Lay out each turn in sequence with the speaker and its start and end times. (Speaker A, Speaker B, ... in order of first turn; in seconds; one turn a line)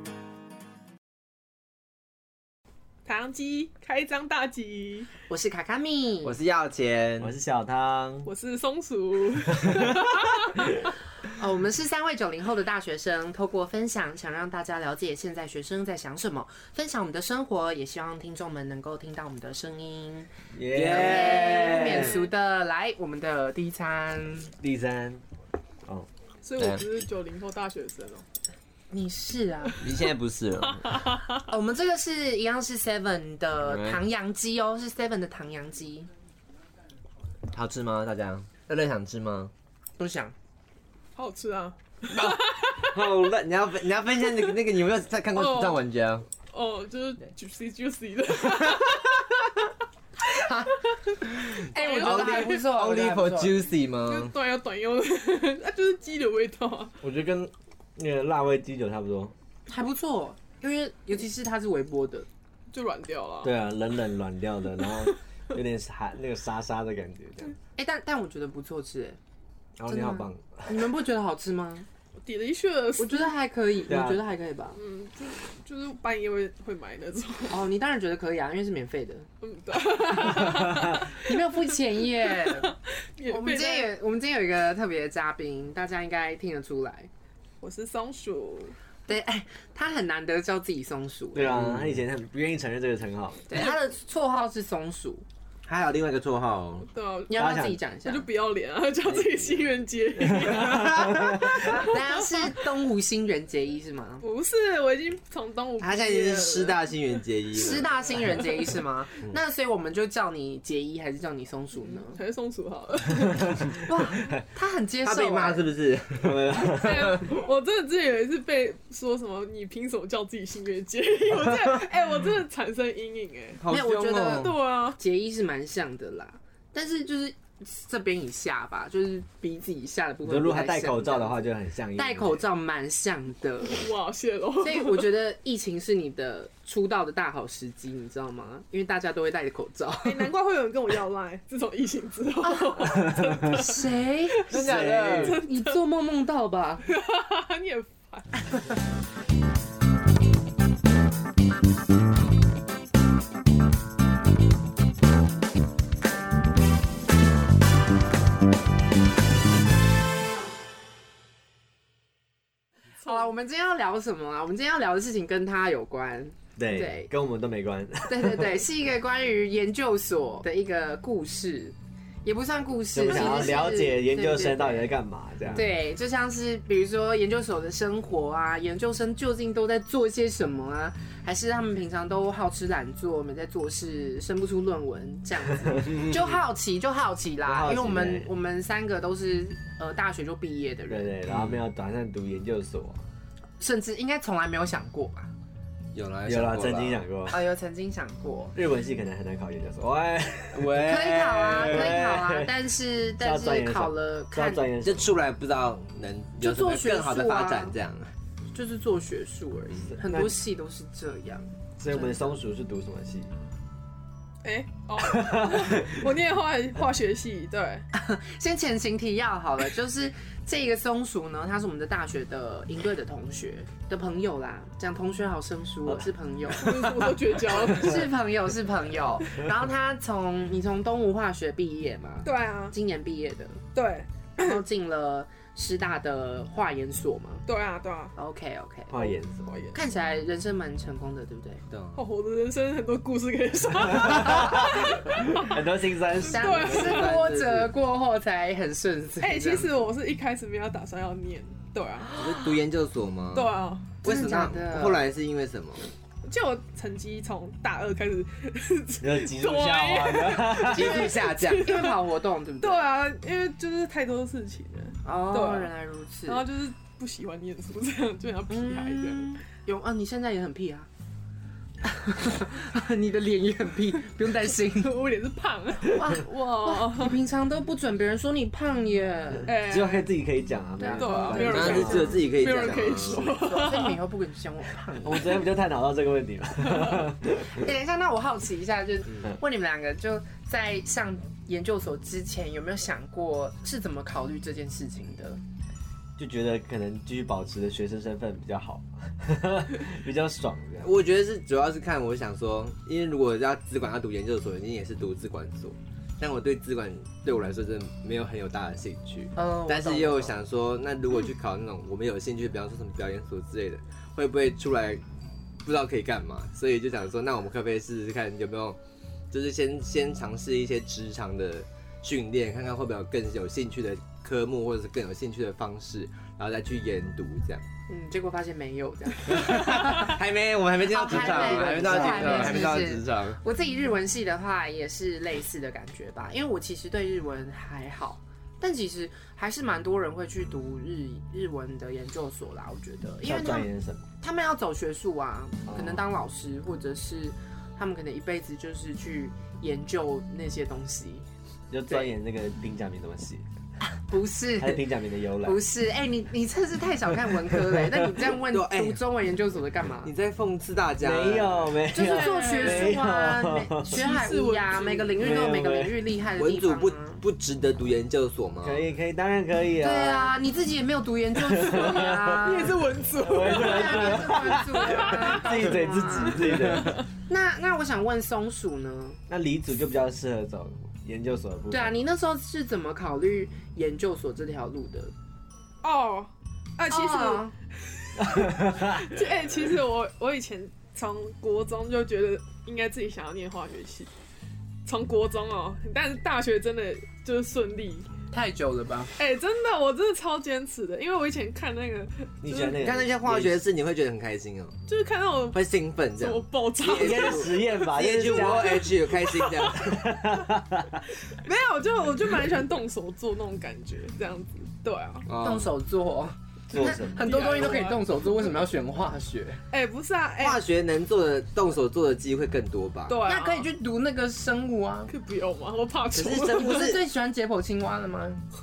Speaker A: 3.0-5.1
Speaker B: 5.3-6.3
Speaker C: 6.2-7.3
Speaker D: 7.2-8.3
Speaker A: 8.2-10.7
Speaker D: 9.5-10.6
Speaker B: 11.3-20.3
Speaker D: 20.5-22.2
Speaker C: 20.7-22.3
Speaker B: 20.8-24.5
Speaker D: 24.6-25.2
Speaker A: 26.4-28.2
Speaker C: 26.6-26.9
Speaker B: 28.9-29.8
Speaker C: 29.8-31.1
Speaker A: 30.8-31.4
Speaker B: 31.4-36.1
Speaker C: 33.6-34.0
Speaker C: 37.5-39.5
Speaker B: 40.0-40.3
Speaker A: 41.1-43.0
Speaker C: 42.1-46.2
Speaker A: 45.3-45.8
Speaker A: 46.5-49.7
Speaker B: 50.4-53.6
Speaker A: 51.7-52.6
Speaker C: 51.8-54.3
Speaker A: 54.0-56.9
Speaker D: 57.0-59.3
Speaker B: 59.7-62.3
Speaker A: 62.7-63.6
Speaker D: 63.4-67.5
Speaker A: 64.8-65.1
Speaker B: 67.8-69.2
Speaker C: 69.8-70.6
Speaker D: 69.9-70.3
Speaker B: 69.9-71.9
Speaker A: 72.2-73.3
Speaker B: 73.0-74.8
Speaker D: 73.9-74.2
Speaker A: 74.7-77.7
Speaker B: 77.5-79.3
Speaker A: 79.4-83.9
Speaker D: 80.4-80.9
Speaker B: 80.9-82.7
Speaker B: 83.2-87.1
Speaker A: 87.6-88.8
Speaker B: 89.1-91.7
Speaker D: 91.3-93.6
Speaker B: 93.5-95.2
Speaker C: 95.7-96.9
Speaker A: 96.9-102.4
Speaker B: 97.3-98.3
Speaker D: 97.3-97.8
Speaker D: 99.0-101.7
Speaker B: 101.6-104.2
Speaker A: 104.2-106.9
Speaker C: 105.8-108.1
Speaker B: 107.5-112.2
Speaker A: 111.8-113.9
Speaker B: 113.8-115.7
Speaker C: 115.0-116.6
Speaker D: 116.2-117.2
Speaker A: 116.6-123.6
Speaker C: 123.6-124.5
Speaker B: 123.7-133.8
Speaker A: 124.2-125.0
Speaker D: 130.2-132.4
Speaker A: 133.6-135.1
Speaker B: 134.6-140.3
Speaker A: 140.0-143.7
Speaker B: 142.4-144.5
Speaker C: 144.5-145.4
Speaker D: 144.5-145.4
Speaker A: 145.2-145.8
Speaker B: 145.3-146.8
Speaker A: 146.9-148.4
Speaker B: 163.0-167.1
Speaker D: 166.6-168.7
Speaker B: 168.1-174.9
Speaker D: 172.9-175.7
Speaker A: 173.1-173.6
Speaker B: 175.5-191.1
Speaker D: 185.6-186.0
Speaker C: 185.9-186.4
Speaker D: 187.4-188.3
Speaker D: 190.9-193.0
Speaker C: 191.3-191.6
Speaker B: 193.6-195.3
Speaker C: 195.9-197.0
Speaker D: 196.2-197.4
Speaker B: 197.3-198.5
Speaker D: 198.5-200.8
Speaker C: 200.5-202.0
Speaker B: 200.8-204.7
Speaker D: 201.5-205.1
Speaker C: 204.8-208.1
Speaker B: 206.4-207.8
Speaker B: 208.5-212.4
Speaker D: 209.9-210.4
Speaker D: 211.8-213.3
Speaker A: 214.4-217.9
Speaker D: 215.0-216.1
Speaker B: 217.9-233.6
Speaker D: 225.8-226.1
Speaker A: 226.5-228.0
Speaker D: 227.6-228.0
Speaker A: 232.2-232.8
Speaker A: 233.7-234.6
Speaker B: 234.4-237.4
Speaker A: 237.4-238.1
Speaker B: 238.2-239.2
Speaker D: 238.9-239.5
Speaker A: 239.4-239.8
Speaker B: 239.7-241.6
Speaker C: 241.7-242.0
Speaker A: 241.9-245.6
Speaker D: 244.0-247.1
Speaker B: 246.2-249.7
Speaker A: 246.3-247.2
Speaker C: 246.7-247.7
Speaker A: 249.2-252.3
Speaker C: 252.1-255.8
Speaker A: 253.3-253.9
Speaker B: 254.0-255.1
Speaker A: 256.2-265.7
Speaker D: 259.0-261.1
Speaker B: 260.7-262.9
Speaker C: 260.8-261.5
Speaker B: 265.0-266.4
Speaker A: 266.2-269.4
Speaker B: 268.5-270.9
Speaker B: 271.8-274.9
Speaker A: 274.5-277.2
Speaker B: 275.8-279.5
Speaker A: 279.4-280.1
Speaker D: 279.6-282.2
Speaker B: 280.8-282.1
Speaker A: 280.9-284.0
Speaker C: 281.3-283.3
Speaker B: 282.8-285.4
Speaker D: 285.0-287.7
Speaker B: 287.5-295.4
Speaker D: 296.2-300.9
Speaker C: 300.8-315.0
Speaker B: 309.4-310.3
Speaker C: 315.6-318.8
Speaker C: 319.3-327.6
Speaker B: 327.9-330.2
Speaker C: 329.3-333.4
Speaker B: 330.8-343.7
Speaker D: 343.2-344.1
Speaker B: 344.2-351.2
Speaker D: 345.7-346.1
Speaker D: 351.7-353.4
Speaker B: 354.0-354.8
Speaker D: 354.6-355.6
Speaker B: 355.4-360.1
Speaker D: 357.3-358.0
Speaker C: 358.5-359.0
Speaker C: 360.0-361.8
Speaker D: 361.0-364.1
Speaker B: 361.9-367.2
Speaker A: 361.9-363.0
Speaker A: 363.9-365.3
Speaker D: 365.2-366.0
Speaker C: 366.4-368.9
Speaker D: 368.6-370.3
Speaker B: 369.8-372.8
Speaker D: 371.3-377.0
Speaker A: 371.7-375.6
Speaker B: 373.3-379.2
Speaker A: 376.5-377.0
Speaker D: 379.3-382.1
Speaker B: 381.7-385.1
Speaker A: 385.8-394.1
Speaker B: 386.9-387.5
Speaker D: 388.2-389.1
Speaker A: 394.8-398.1
Speaker B: 398.3-399.1
Speaker A: 399.2-402.8
Speaker D: 402.4-403.6
Speaker C: 402.8-404.8
Speaker A: 404.9-405.6
Speaker C: 405.5-410.1
Speaker A: 406.1-410.3
Speaker D: 406.9-408.9
Speaker D: 409.8-411.0
Speaker A: 411.2-415.3
Speaker C: 415.3-415.7
Speaker B: 415.3-419.6
Speaker D: 416.7-417.6
Speaker A: 417.2-418.6
Speaker A: 419.7-420.6
Speaker C: 420.4-423.2
Speaker A: 423.1-423.7
Speaker B: 423.2-425.1
Speaker A: 425.1-426.9
Speaker C: 426.1-427.0
Speaker B: 426.5-428.4